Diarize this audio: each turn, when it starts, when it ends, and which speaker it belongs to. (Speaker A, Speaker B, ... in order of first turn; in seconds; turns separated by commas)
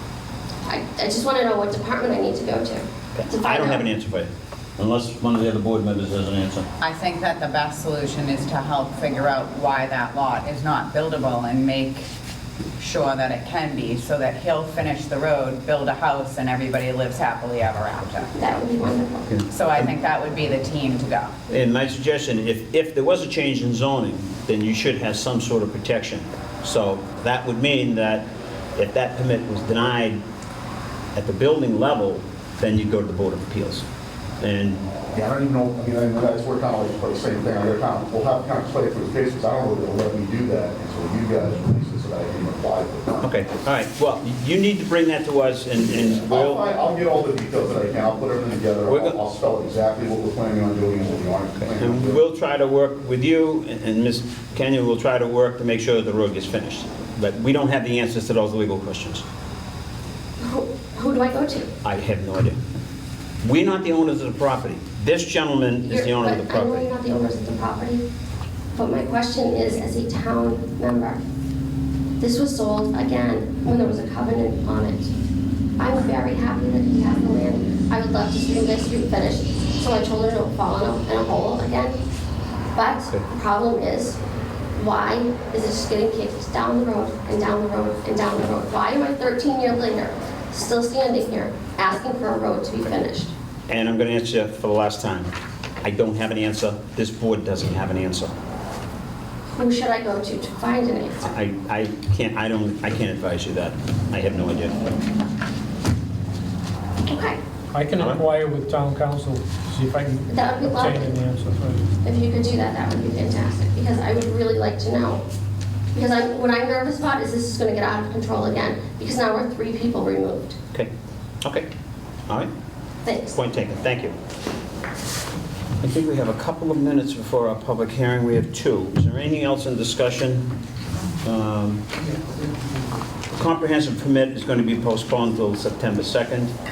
Speaker A: 0.7-3.9, Speaker B: 3.1-6.7, Speaker C: 6.8-12.1, Speaker C: 12.8-18.3, Speaker A: 18.4-19.3, Speaker B: 19.3-19.9, Speaker C: 19.5-21.3, Speaker B: 21.5-28.2, Speaker B: 28.8-30.2, Speaker B: 31.1-33.8, Speaker B: 34.4-34.8, Speaker D: 35.1-43.3, Speaker B: 43.2-46.7, Speaker D: 46.1-52.2, Speaker B: 48.9-49.1, Speaker B: 51.6-59.2, Speaker A: 60.4-61.7, Speaker B: 61.8-62.6, Speaker B: 63.4-66.9, Speaker A: 65.8-68.0, Speaker A: 68.7-71.2, Speaker A: 72.2-75.1, Speaker A: 75.8-82.0, Speaker A: 82.7-84.2, Speaker A: 84.8-93.3, Speaker B: 93.7-95.3, Speaker B: 95.8-98.3, Speaker A: 99.5-101.2, Speaker B: 101.2-104.8, Speaker A: 107.0-107.4, Speaker E: 107.7-111.9, Speaker A: 110.3-111.1, Speaker A: 112.0-115.2, Speaker A: 115.9-120.5, Speaker A: 123.0-123.4, Speaker B: 123.3-124.1, Speaker B: 125.8-130.5, Speaker B: 131.2-131.8, Speaker B: 133.3-136.5